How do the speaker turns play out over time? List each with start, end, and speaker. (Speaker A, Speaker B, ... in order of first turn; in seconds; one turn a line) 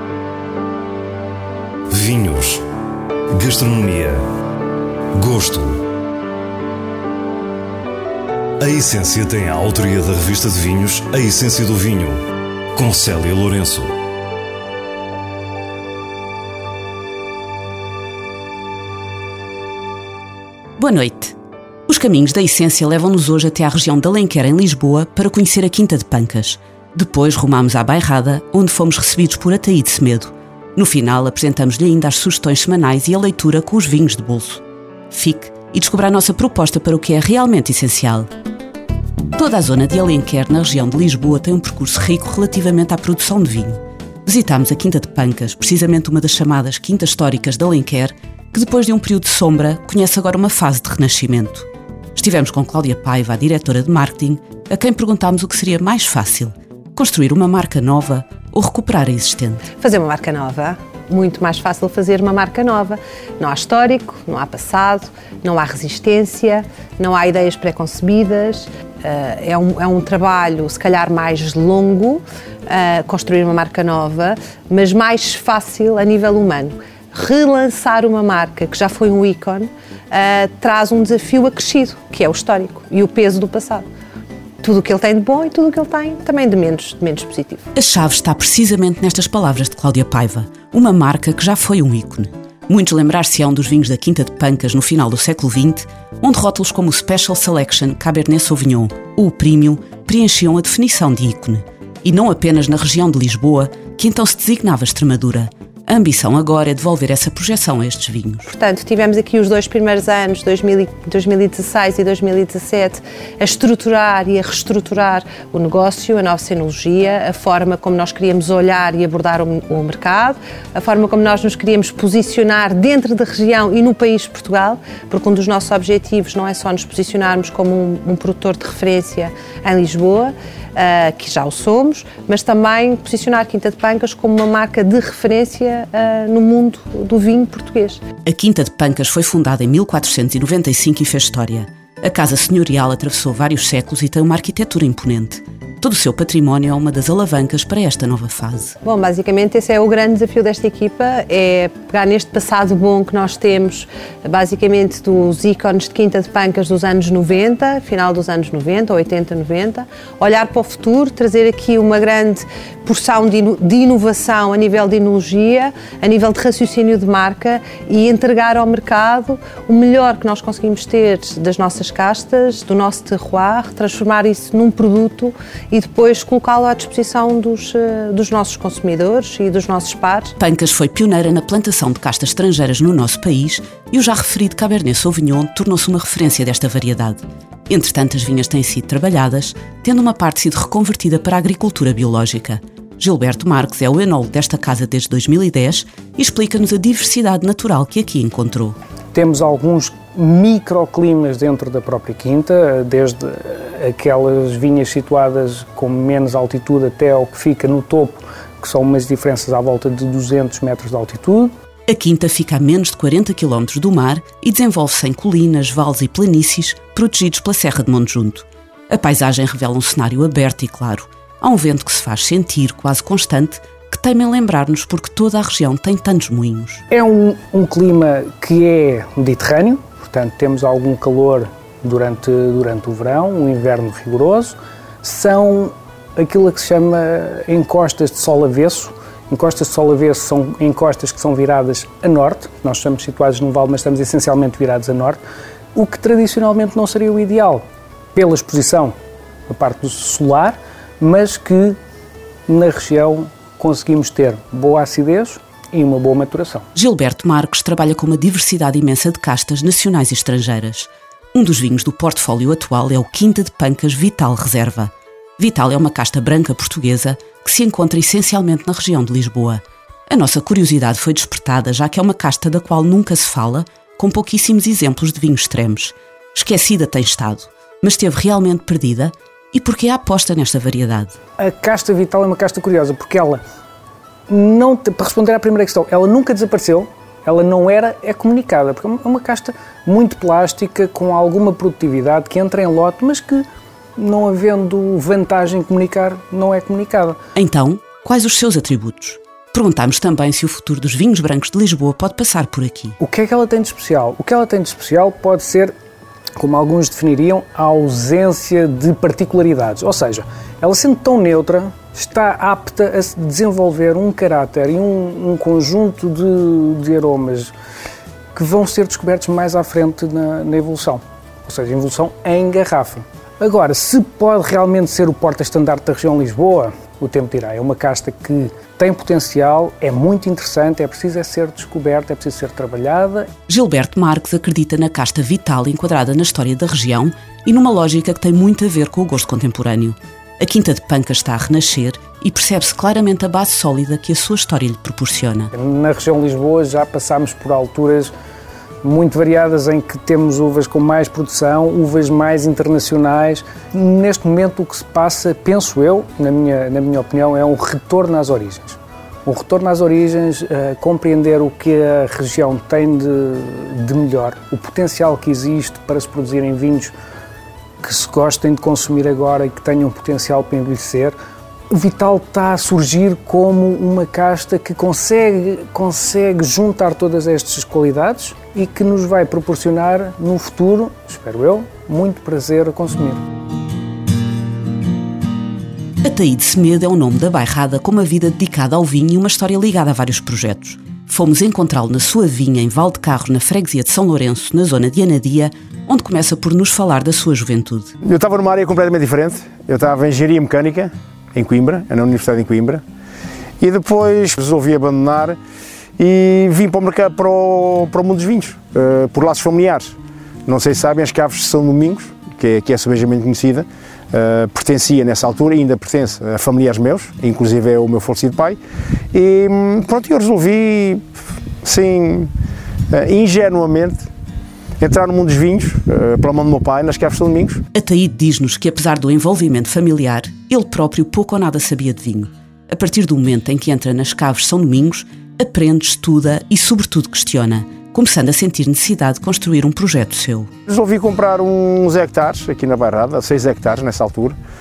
Speaker A: 1.9-2.6
Speaker A: 3.3-4.2
Speaker A: 5.1-5.8
Speaker A: 8.6-12.2
Speaker A: 12.7-13.9
Speaker B: 20.8-21.4
Speaker B: 21.9-38.3
Speaker B: 39.3-59.6
Speaker C: 59.8-83.8
Speaker C: 84.6-87.6
Speaker B: 87.7-108.5
Speaker C: 108.5-138.0
Speaker B: 138.2-148.8
Speaker C: 148.8-180.3
Speaker B: 180.4-198.8
Speaker D: 199.1-211.5
Speaker B: 211.9-226.8
Speaker D: 226.9-245.2
Speaker D: 245.7-247.6
Speaker D: 248.1-248.9
Speaker D: 249.5-251.8
Speaker D: 252.5-256.6
Speaker B: 256.7-281.1
Speaker D: 281.4-283.4
Speaker D: 284.3-293.4
Speaker D: 293.9-297.2
Speaker B: 297.3-303.0
Speaker D: 303.0-305.7
Speaker D: 306.4-317.5
Speaker D: 318.3-333.3
Speaker B: 333.5-345.5
Speaker D: 345.5-348.1
Speaker D: 348.8-366.9
Speaker D: 367.8-371.1
Speaker D: 371.7-383.2
Speaker B: 386.0-397.9
Speaker E: 398.0-402.8
Speaker E: 403.6-405.4
Speaker E: 406.0-418.6
Speaker E: 419.1-421.0
Speaker E: 421.6-422.3
Speaker E: 422.9-424.1
Speaker E: 424.8-427.6
Speaker B: 427.7-440.5
Speaker E: 440.7-444.4